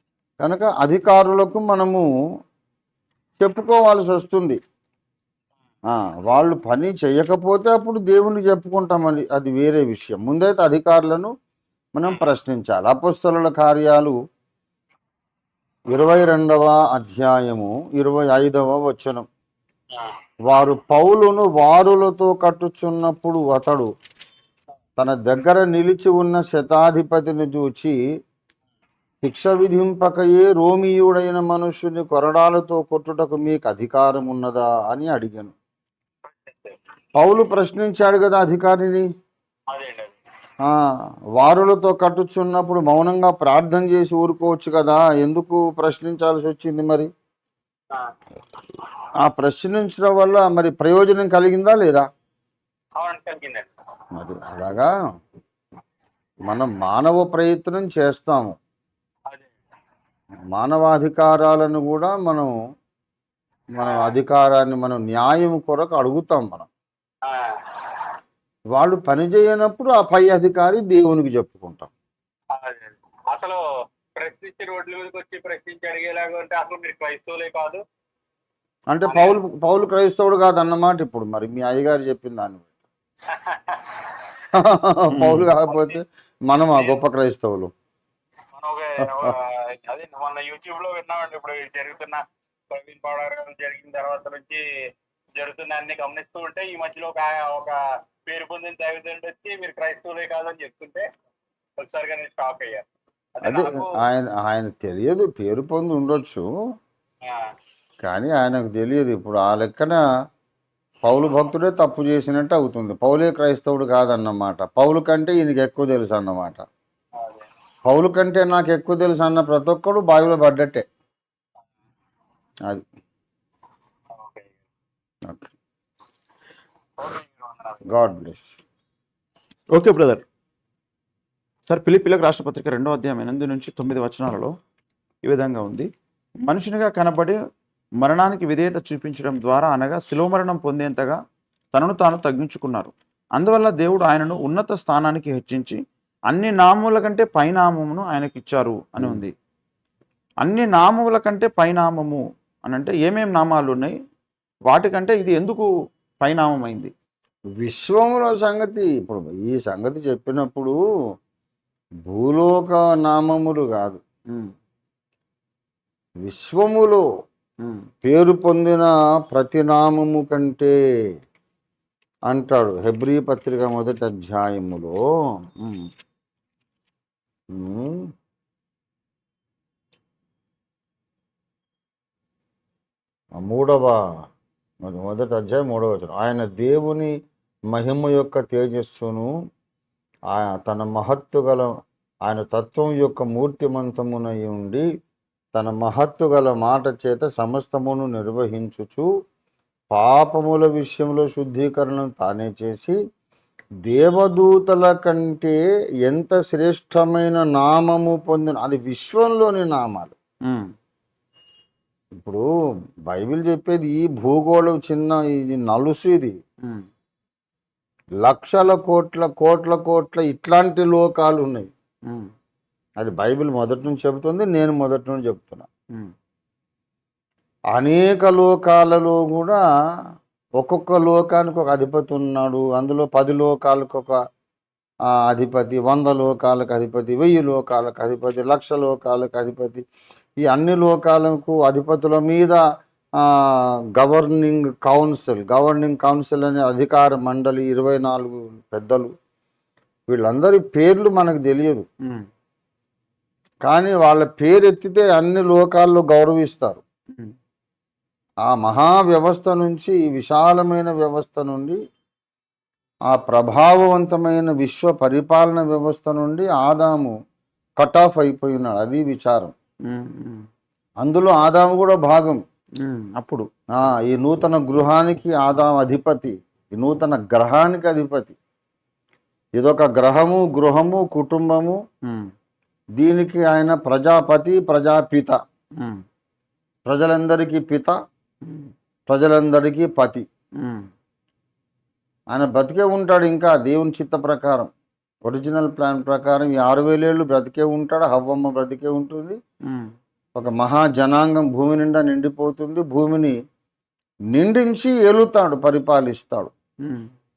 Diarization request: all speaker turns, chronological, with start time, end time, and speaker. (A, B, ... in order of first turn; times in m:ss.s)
0:00.4-0:02.1 A
0:03.4-0:04.6 A
0:05.9-0:11.3 A
0:12.0-0:14.2 A
0:15.9-0:19.3 A
0:19.9-0:20.2 B
0:20.4-0:23.9 A
0:25.0-0:28.0 A
0:29.2-0:35.5 A
0:36.2-0:36.8 B
0:37.2-0:39.1 A
0:39.7-0:40.2 B
0:40.6-0:47.1 A
0:49.2-0:52.1 A
0:53.0-0:53.7 B
0:54.2-0:54.9 A
0:56.5-0:58.6 A
1:00.5-1:02.5 A
1:03.8-1:06.7 A
1:03.8-1:04.2 B
1:07.2-1:07.7 B
1:08.8-1:11.9 A
1:12.5-1:13.6 B
1:14.2-1:17.8 B
1:18.9-1:22.7 A
1:19.1-1:19.4 B
1:23.3-1:24.2 B
1:24.5-1:27.7 A
1:25.1-1:25.5 C
1:25.7-1:26.0 B
1:28.5-1:34.6 B
1:29.0-1:29.4 A
1:35.4-1:41.1 B
1:41.8-1:42.8 B
1:43.4-1:43.9 B
1:43.4-1:46.4 A
1:47.2-1:47.5 B
1:48.0-1:50.0 A
1:51.0-1:56.6 A
1:57.2-1:57.5 B
1:57.8-2:00.9 A
2:04.1-2:04.5 B
2:05.3-2:05.5 A
2:07.0-2:07.8 B
2:07.9-2:08.6 A
2:09.7-2:10.2 C
2:11.7-2:14.6 C
2:15.2-2:15.9 C
2:16.4-2:17.4 C
2:18.0-2:21.2 C
2:21.7-2:29.3 C
2:30.4-2:33.9 C
2:34.7-2:35.7 C
2:36.2-2:36.9 C
2:37.6-2:40.8 A
2:42.1-2:44.0 A
2:46.2-2:47.0 A
2:47.6-2:47.9 C
2:48.0-2:50.8 A
2:52.3-2:55.0 A
2:55.6-2:55.9 C
2:57.5-2:58.1 A
3:03.4-3:04.2 A
3:04.8-3:07.2 A
3:07.7-3:09.3 A
3:10.3-3:11.7 A
3:12.2-3:14.9 A
3:15.5-3:19.1 A
3:19.9-3:23.0 A
3:23.8-3:30.1 A
3:30.5-3:30.7 C
3:32.2-3:32.4 A
3:33.1-3:36.4 A
3:38.2-3:41.7 A
3:43.0-3:45.7 A
3:47.7-3:49.6 A
3:50.6-3:54.2 A
3:55.2-3:59.8 A
4:00.4-4:02.6 A
4:03.2-4:09.1 A
4:10.1-4:11.9 A
4:13.7-4:16.8 A
4:18.5-4:21.8 A
4:23.1-4:27.1 A
4:27.8-4:29.5 A
4:29.9-4:30.5 C
4:31.0-4:32.4 A
4:32.8-4:33.5 C
4:33.8-4:38.4 A
4:39.6-4:41.8 A
4:42.0-4:42.3 C
4:43.0-4:45.4 A
4:45.8-4:46.0 C
4:46.9-4:48.0 A
4:48.4-4:48.7 C
4:49.1-4:50.3 A
4:50.6-4:50.9 C
4:52.3-4:54.7 A
4:55.2-4:59.4 A
4:59.6-4:59.9 C
5:00.4-5:03.4 A
5:04.3-5:06.5 A
5:06.8-5:07.1 C